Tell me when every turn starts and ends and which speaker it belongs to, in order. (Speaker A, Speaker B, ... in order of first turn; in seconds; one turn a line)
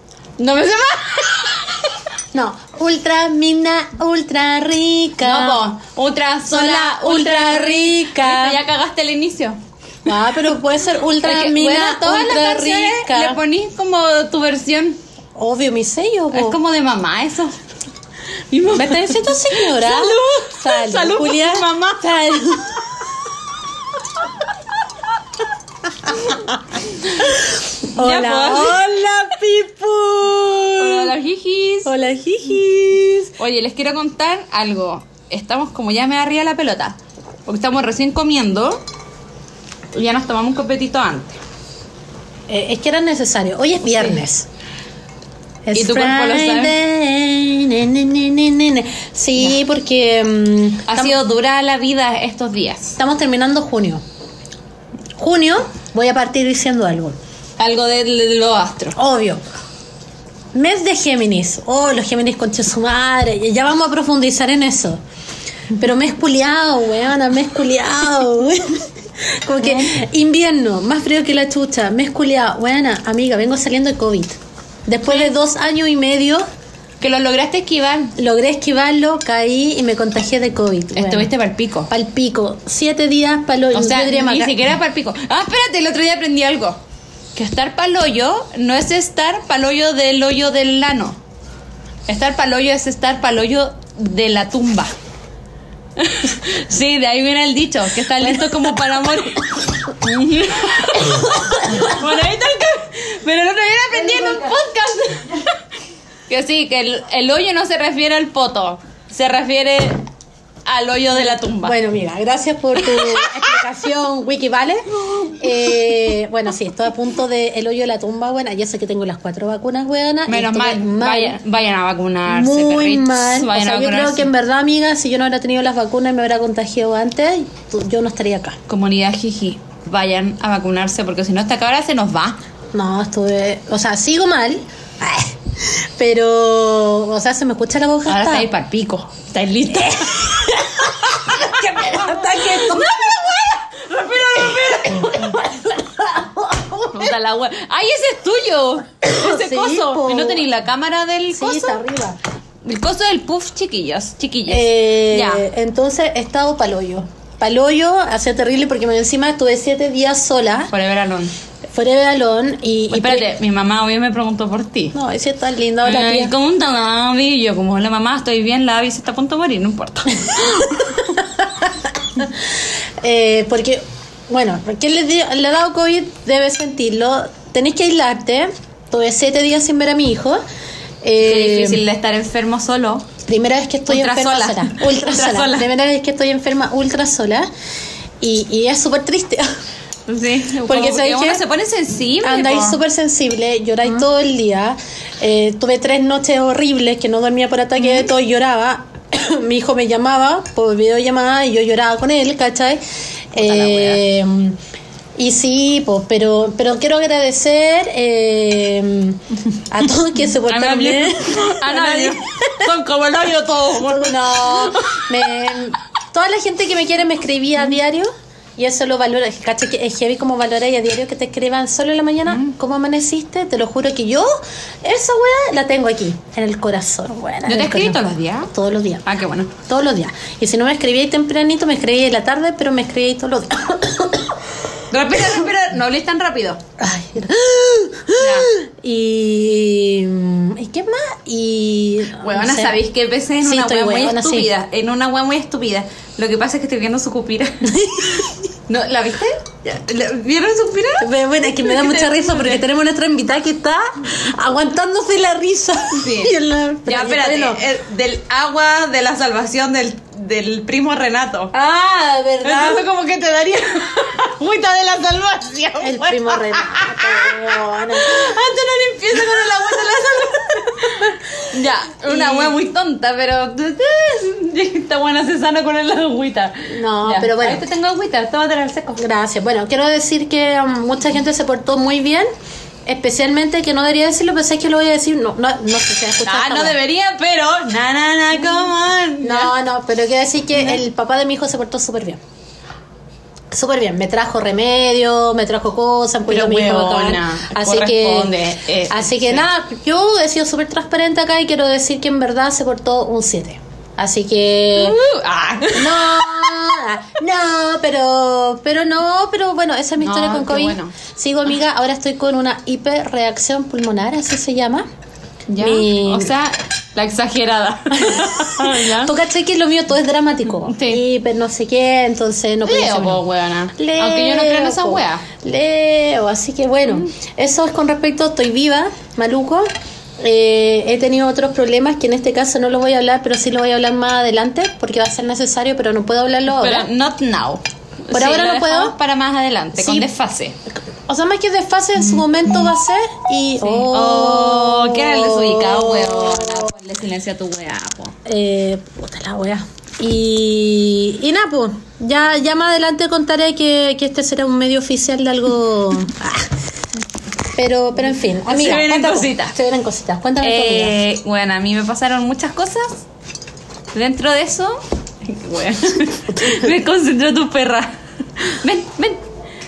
Speaker A: 0.4-1.7
Speaker B: 2.3-5.6
Speaker A: 5.2-10.2
Speaker B: 6.5-8.6
Speaker B: 10.1-13.4
Speaker A: 11.2-15.0
Speaker B: 15.3-16.6
Speaker A: 16.3-17.6
Speaker A: 18.5-22.1
Speaker B: 18.7-23.0
Speaker B: 26.1-31.1
Speaker A: 27.9-28.8
Speaker A: 30.8-31.9
Speaker B: 31.8-33.3
Speaker A: 33.4-38.8
Speaker A: 39.9-41.4
Speaker B: 42.5-44.5
Speaker B: 45.6-51.2
Speaker A: 45.7-46.8
Speaker A: 50.9-53.0
Speaker B: 53.0-54.0
Speaker B: 55.1-57.2
Speaker A: 57.6-59.0
Speaker B: 59.0-59.4
Speaker B: 60.5-65.0
Speaker B: 65.7-76.4
Speaker A: 69.6-70.0
Speaker A: 75.1-75.3
Speaker A: 77.0-78.1
Speaker B: 78.2-81.3
Speaker A: 80.9-81.9
Speaker B: 81.9-84.7
Speaker A: 83.7-86.8
Speaker A: 87.3-91.2
Speaker A: 92.1-94.9
Speaker A: 96.0-105.4
Speaker B: 98.2-98.5
Speaker B: 104.0-104.5
Speaker A: 106.3-110.0
Speaker A: 110.7-111.7
Speaker B: 111.6-121.4
Speaker A: 112.8-113.5
Speaker A: 120.3-124.3
Speaker B: 122.3-128.6
Speaker A: 128.7-132.4
Speaker B: 132.7-138.5
Speaker A: 138.1-145.7
Speaker B: 141.0-143.1
Speaker B: 145.3-147.1
Speaker A: 146.9-151.8
Speaker B: 149.0-150.4
Speaker B: 151.3-152.2
Speaker A: 152.6-155.4
Speaker B: 154.5-160.7
Speaker A: 160.7-161.3
Speaker B: 161.7-163.3
Speaker A: 162.9-164.9
Speaker B: 164.9-166.3
Speaker A: 165.8-171.0
Speaker B: 170.9-180.4
Speaker B: 181.0-181.8
Speaker A: 181.2-183.1
Speaker B: 183.2-187.5
Speaker A: 183.9-185.7
Speaker B: 188.2-189.5
Speaker A: 190.1-192.8
Speaker B: 190.6-191.4
Speaker B: 192.2-202.8
Speaker A: 197.8-198.1
Speaker B: 203.3-204.6
Speaker A: 203.7-203.9
Speaker B: 205.2-212.7
Speaker A: 210.4-215.1
Speaker B: 213.8-228.0
Speaker A: 222.3-222.5
Speaker A: 227.4-228.5
Speaker B: 228.5-229.0
Speaker A: 229.0-229.5
Speaker B: 229.6-234.3
Speaker A: 234.9-236.6
Speaker B: 236.8-242.8
Speaker A: 238.2-238.5
Speaker A: 242.2-252.6
Speaker B: 243.4-244.5
Speaker B: 247.7-248.5
Speaker B: 251.0-257.6
Speaker A: 255.9-261.5
Speaker B: 261.5-262.9
Speaker A: 262.4-267.4
Speaker B: 265.8-268.4
Speaker A: 267.9-279.0
Speaker B: 269.1-271.4
Speaker B: 272.0-272.6
Speaker B: 276.6-277.6
Speaker B: 279.0-282.3
Speaker B: 282.8-286.8
Speaker A: 286.2-289.5
Speaker B: 288.4-288.7
Speaker B: 289.2-292.2
Speaker A: 290.5-290.8
Speaker B: 293.5-305.0
Speaker A: 296.3-299.5
Speaker A: 304.7-306.6
Speaker B: 305.7-314.9
Speaker A: 310.0-310.9
Speaker A: 315.5-319.1
Speaker B: 315.6-316.3
Speaker B: 317.9-323.2
Speaker A: 320.6-321.0
Speaker A: 322.6-325.2
Speaker B: 323.8-336.9
Speaker A: 336.5-340.6
Speaker B: 338.1-338.9
Speaker B: 339.8-340.1
Speaker B: 340.8-346.7
Speaker A: 342.0-342.7
Speaker A: 343.6-348.1
Speaker B: 348.2-356.5
Speaker B: 357.5-360.9
Speaker A: 358.4-359.6
Speaker A: 360.4-363.0
Speaker A: 363.9-369.2
Speaker B: 366.4-366.7